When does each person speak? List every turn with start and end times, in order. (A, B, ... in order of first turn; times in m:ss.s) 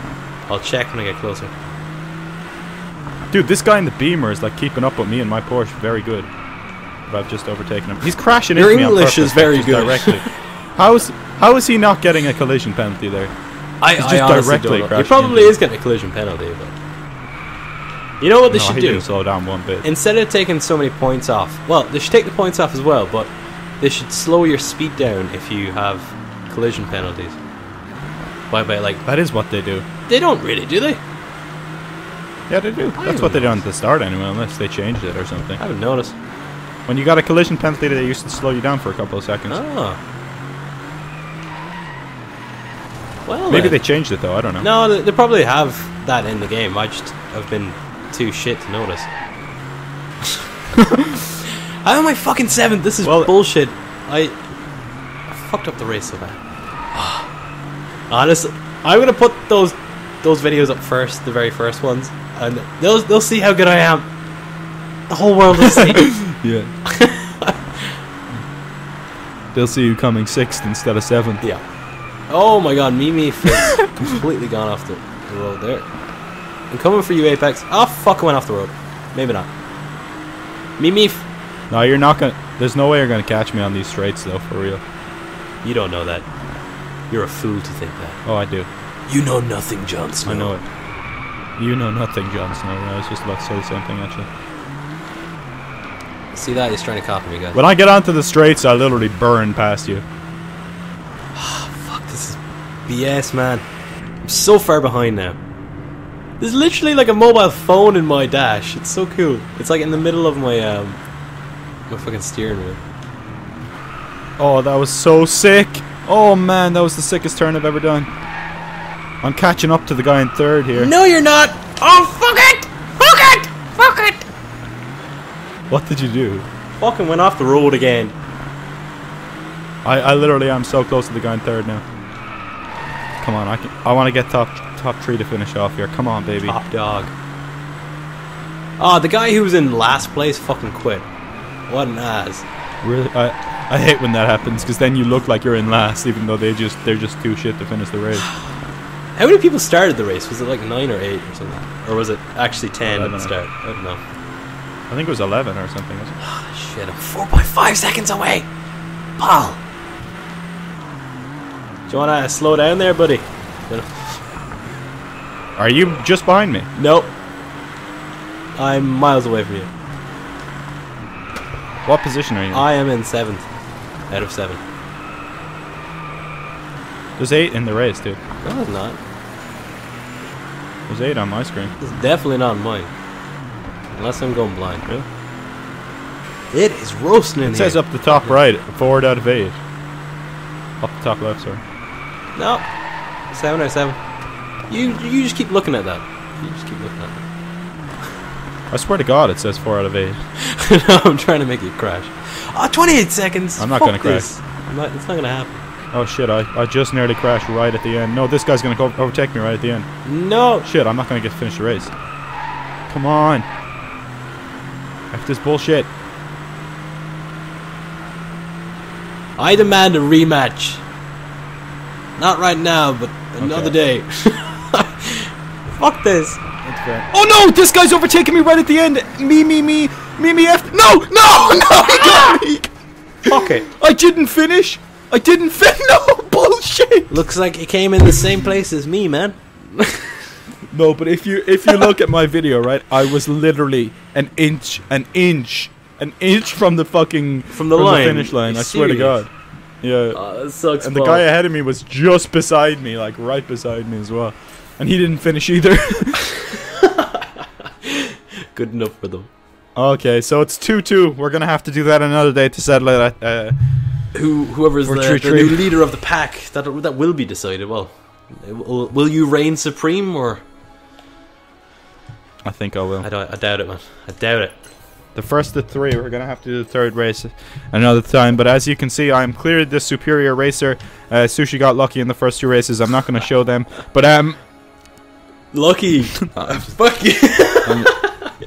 0:00.5-0:01.5 A
0:03.3-0:06.3 B
0:07.1-0:13.3 B
0:08.6-0:10.3 A
0:13.8-0:16.7 A
0:13.9-0:15.6 B
0:18.2-0:19.1 A
0:18.5-0:19.9 B
0:19.8-0:27.4 A
0:28.5-0:29.0 A
0:29.1-0:29.8 B
0:30.1-0:31.0 A
0:32.5-0:35.6 B
0:33.0-0:33.6 A
0:35.6-0:36.2 A
0:36.9-0:39.6 B
0:39.5-0:40.0 A
0:43.2-0:43.8 A
0:43.5-0:44.7 B
0:44.6-0:49.1 A
0:51.8-0:54.4 A
0:53.0-0:53.3 B
0:55.3-0:56.4 A
0:56.9-0:57.3 A
0:58.1-1:04.1 A
1:05.1-1:06.2 A
1:05.8-1:06.8 B
1:06.9-1:08.0 A
1:09.5-1:11.4 B
1:12.3-1:15.9 A
1:16.7-1:19.5 A
1:20.8-1:21.2 A
1:21.7-1:24.8 B
1:25.6-1:26.3 A
1:27.1-1:28.2 A
1:28.2-1:28.7 B
1:29.1-1:30.6 A
1:30.3-1:30.6 B
1:31.6-1:34.3 B
1:36.3-1:37.6 A
1:37.5-1:40.0 B
1:41.4-1:43.6 A
1:44.2-1:45.4 A
1:46.4-1:51.0 A
1:51.9-1:52.8 A
1:54.4-1:58.1 B
1:59.2-2:00.9 B
2:00.8-2:04.2 A
2:05.7-2:06.5 B
2:06.8-2:08.1 A
2:09.8-2:11.8 B
2:13.2-2:16.6 B
2:16.5-2:17.1 A
2:18.8-2:21.1 A
2:21.7-2:22.4 A
2:22.8-2:28.3 B
2:29.2-2:34.0 A
2:32.8-2:33.4 B
2:34.9-2:36.2 B
2:36.2-2:38.5 A
2:39.2-2:39.6 A
2:41.9-2:44.2 A
2:45.6-2:46.7 B
2:46.8-2:47.1 A
2:48.6-2:49.7 A
2:51.8-2:52.7 B
2:52.5-2:53.5 A
2:54.1-2:54.6 A
2:57.2-2:58.2 B
2:58.4-2:59.0 A
3:00.9-3:01.7 B
3:01.8-3:02.9 A
3:03.9-3:04.9 A
3:06.5-3:08.4 A
3:07.4-3:09.6 B
3:10.8-3:11.6 B
3:12.4-3:12.7 A
3:13.3-3:14.0 A
3:14.7-3:17.2 A
3:18.7-3:20.2 B
3:20.5-3:25.6 A
3:23.6-3:24.3 B
3:25.9-3:29.9 B
3:30.0-3:30.7 A
3:30.6-3:31.9 B
3:32.9-3:33.5 B
3:35.1-3:35.9 B
3:39.4-3:40.8 A
3:42.2-3:46.4 A
3:43.4-3:43.8 B
3:46.6-3:52.7 B
3:51.7-3:52.4 A
3:53.3-3:57.2 B
3:53.3-3:53.7 A
3:57.1-4:00.2 A
4:00.7-4:16.3 B
4:07.5-4:09.2 A
4:10.1-4:11.3 A
4:18.5-4:19.3 A
4:19.8-4:24.1 B
4:24.1-4:30.4 A
4:24.9-4:25.7 B
4:32.4-4:33.1 B
4:33.0-4:34.6 A
4:35.1-4:44.4 B
4:45.5-4:48.3 A
4:46.3-4:46.7 B
4:47.6-4:48.0 B